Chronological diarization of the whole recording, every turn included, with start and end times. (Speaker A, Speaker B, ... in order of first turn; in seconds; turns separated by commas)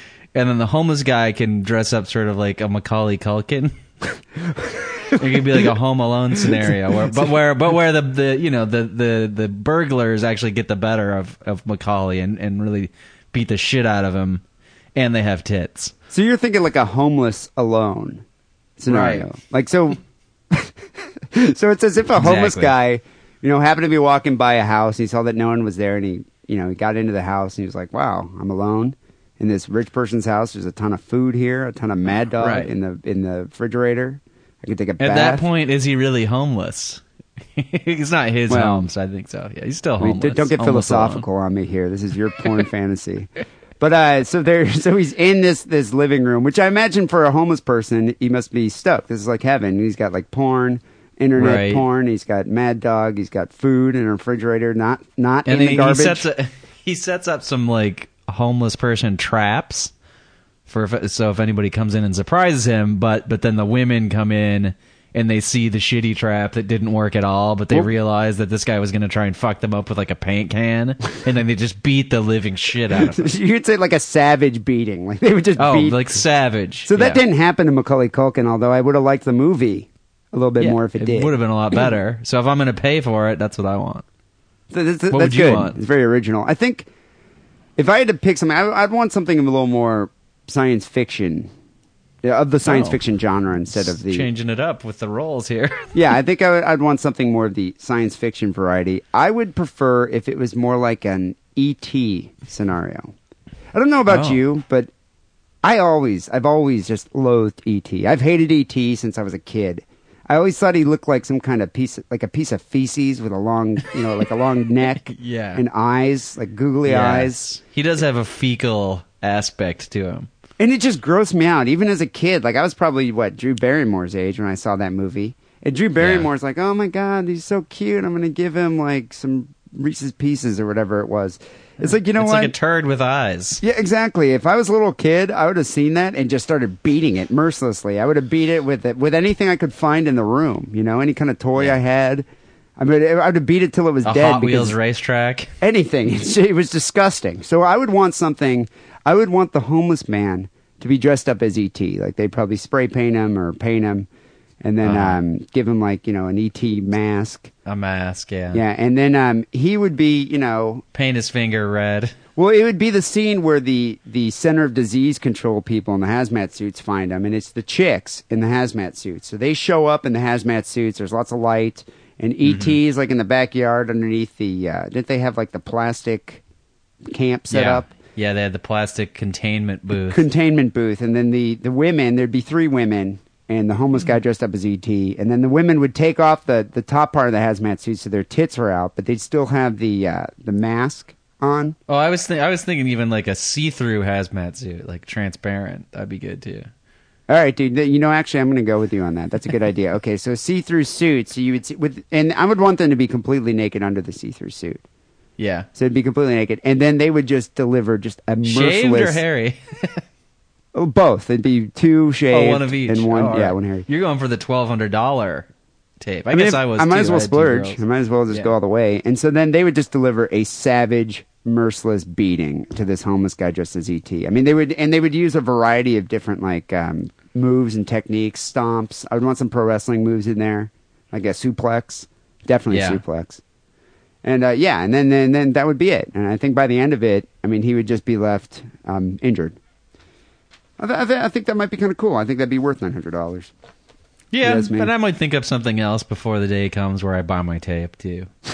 Speaker A: 0.3-3.8, Speaker B: 4.6-5.7, Speaker A: 5.2-14.4, Speaker B: 6.5-7.3, Speaker A: 15.0-15.9, Speaker B: 16.1-18.2, Speaker B: 18.8-20.0, Speaker A: 18.9-19.3, Speaker B: 20.5-35.5, Speaker A: 22.2-22.7, Speaker A: 32.4-32.7, Speaker A: 35.0-37.0, Speaker A: 37.6-41.3, Speaker B: 38.5-38.9, Speaker B: 40.0-56.3, Speaker A: 51.4-51.8, Speaker A: 55.5-59.9, Speaker A: 60.7-73.3, Speaker B: 72.9-76.2, Speaker A: 75.6-77.2, Speaker B: 76.9-81.9, Speaker A: 80.6-84.0, Speaker B: 84.7-86.9, Speaker A: 85.1-85.8, Speaker B: 87.8-91.5, Speaker B: 92.2-94.3, Speaker A: 92.7-93.0, Speaker A: 93.7-95.9, Speaker B: 95.9-103.1, Speaker B: 103.7-104.9, Speaker A: 104.1-104.4, Speaker B: 105.6-117.5, Speaker A: 115.1-115.6, Speaker A: 116.9-120.3, Speaker B: 120.6-132.6, Speaker A: 126.0-126.3, Speaker A: 131.8-133.6, Speaker B: 133.6-142.3, Speaker B: 142.8-144.8, Speaker A: 144.0-145.5, Speaker B: 145.6-154.1, Speaker B: 154.6-157.5, Speaker A: 154.8-155.2, Speaker A: 157.7-158.6, Speaker B: 158.5-160.8, Speaker A: 160.9-162.2, Speaker B: 162.4-176.4, Speaker A: 172.4-172.8, Speaker B: 177.1-177.9, Speaker A: 177.5-180.2, Speaker B: 180.1-191.8, Speaker A: 191.9-196.7, Speaker B: 197.3-204.8, Speaker A: 205.4-205.7, Speaker B: 205.8-209.2, Speaker A: 208.4-210.0, Speaker B: 210.7-213.9, Speaker A: 212.3-215.5, Speaker A: 216.0-218.5, Speaker B: 216.3-233.4, Speaker A: 232.7-233.0, Speaker B: 234.2-239.6, Speaker B: 240.8-243.5, Speaker A: 244.3-248.3, Speaker B: 244.4-244.9